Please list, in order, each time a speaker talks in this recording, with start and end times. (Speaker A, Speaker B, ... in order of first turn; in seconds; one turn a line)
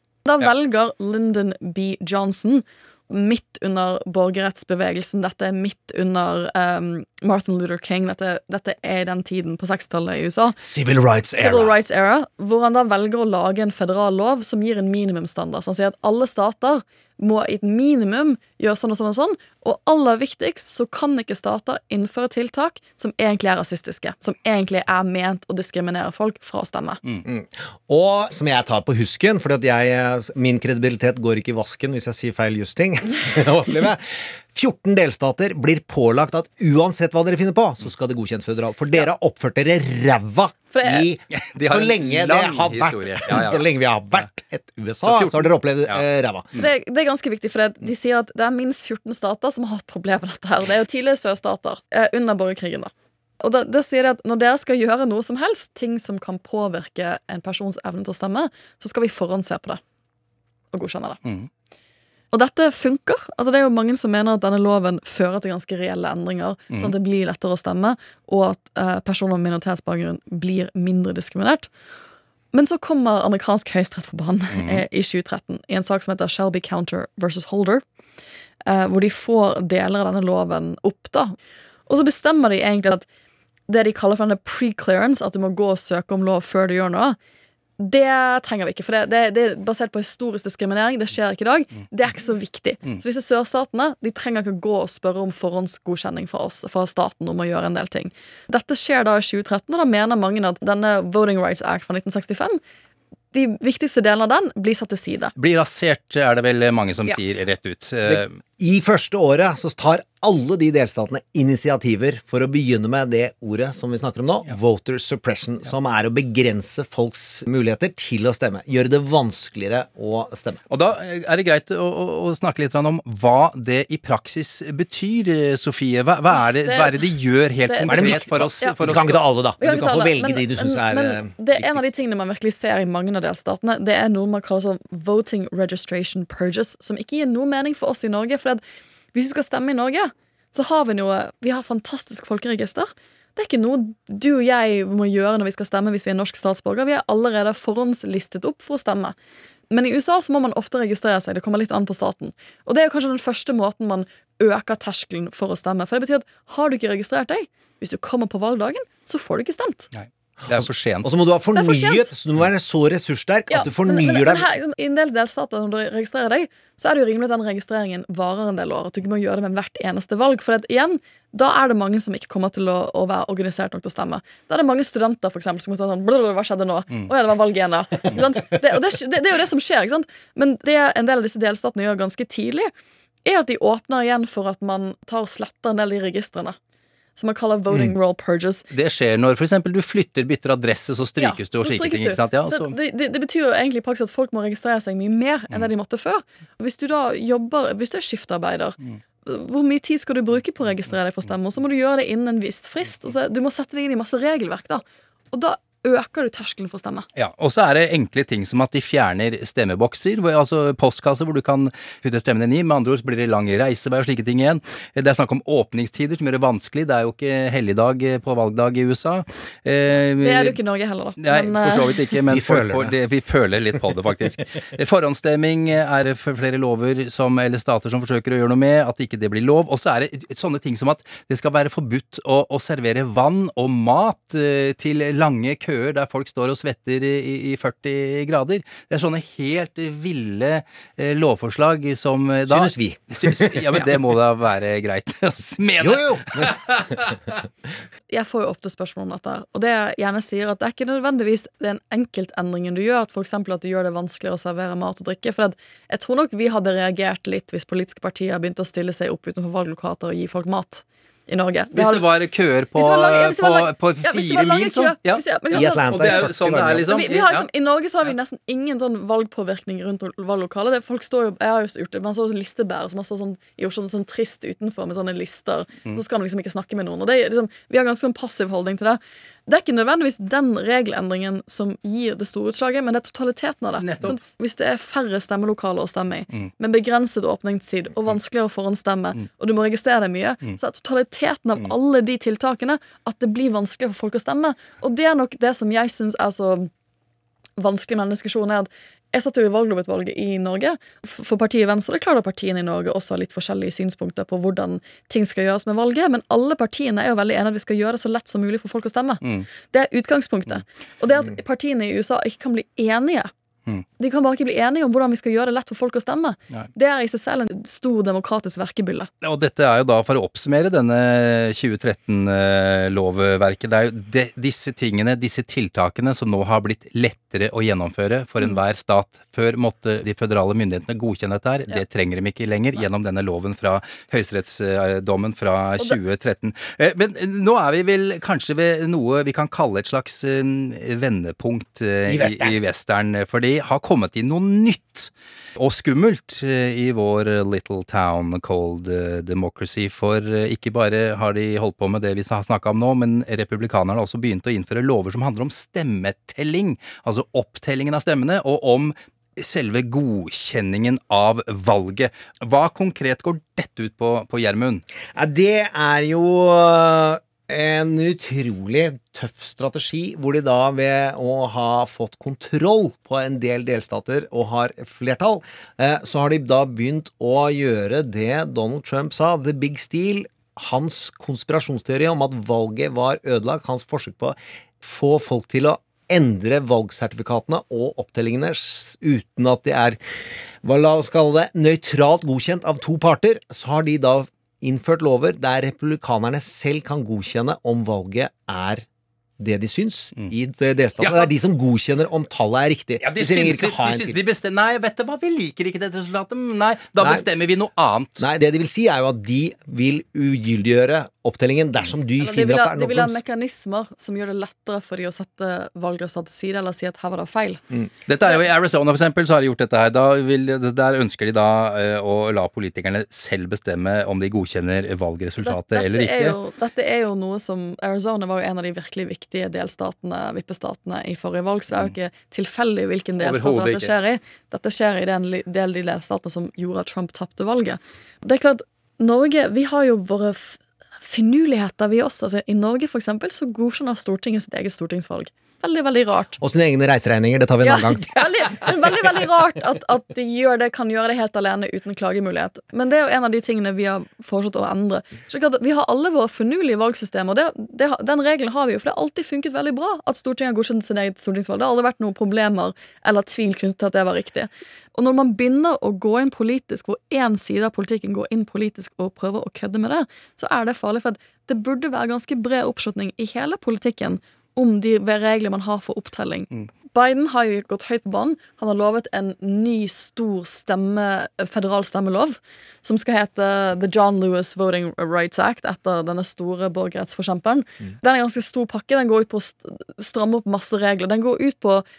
Speaker A: 0.2-10.6
Speaker B: 10.6-11.7
Speaker A: 11.4-27.0
Speaker B: 27.2-46.5
Speaker A: 40.7-41.1
Speaker C: 41.3-43.6
Speaker C: 45.0-46.0
Speaker A: 46.5-59.8
Speaker A: 60.7-61.2
Speaker A: 62.3-71.7
Speaker A: 72.5-77.8
Speaker C: 74.5-74.8
Speaker A: 78.7-81.3
Speaker A: 81.9-83.0
Speaker A: 83.7-87.2
Speaker A: 87.8-102.6
Speaker A: 103.3-105.3
Speaker C: 105.3-108.3
Speaker B: 108.0-120.6
Speaker C: 120.7-129.2
Speaker A: 126.6-126.9
Speaker A: 127.7-128.8
Speaker B: 127.9-131.8
Speaker A: 129.6-138.6
Speaker A: 139.1-149.2
Speaker A: 149.7-159.9
Speaker C: 159.9-161.1
Speaker B: 160.4-164.5
Speaker A: 161.5-162.1
Speaker A: 163.5-182.7
Speaker A: 183.2-186.6
Speaker A: 187.2-188.6
Speaker C: 188.7-192.7
Speaker A: 191.2-207.1
Speaker C: 207.1-220.6
Speaker A: 220.2-222.0
Speaker C: 221.2-247.2
Speaker B: 222.3-222.9
Speaker B: 242.5-243.9
Speaker B: 245.8-246.9
Speaker A: 248.1-262.0
Speaker C: 261.7-267.4
Speaker A: 262.8-266.3
Speaker B: 265.5-266.9
Speaker A: 266.9-296.7
Speaker C: 283.8-284.2
Speaker A: 297.6-313.3
Speaker C: 309.2-309.5
Speaker A: 314.0-319.1
Speaker C: 319.2-364.8
Speaker B: 342.1-342.6
Speaker B: 365.1-390.0
Speaker B: 390.6-398.9
Speaker B: 399.4-404.2
Speaker C: 401.0-401.3
Speaker C: 403.0-408.2
Speaker B: 407.0-407.2
Speaker B: 408.2-413.2
Speaker A: 412.2-417.6
Speaker C: 418.1-426.4
Speaker A: 425.4-446.4
Speaker C: 433.2-433.9
Speaker B: 446.4-448.1
Speaker A: 447.6-491.8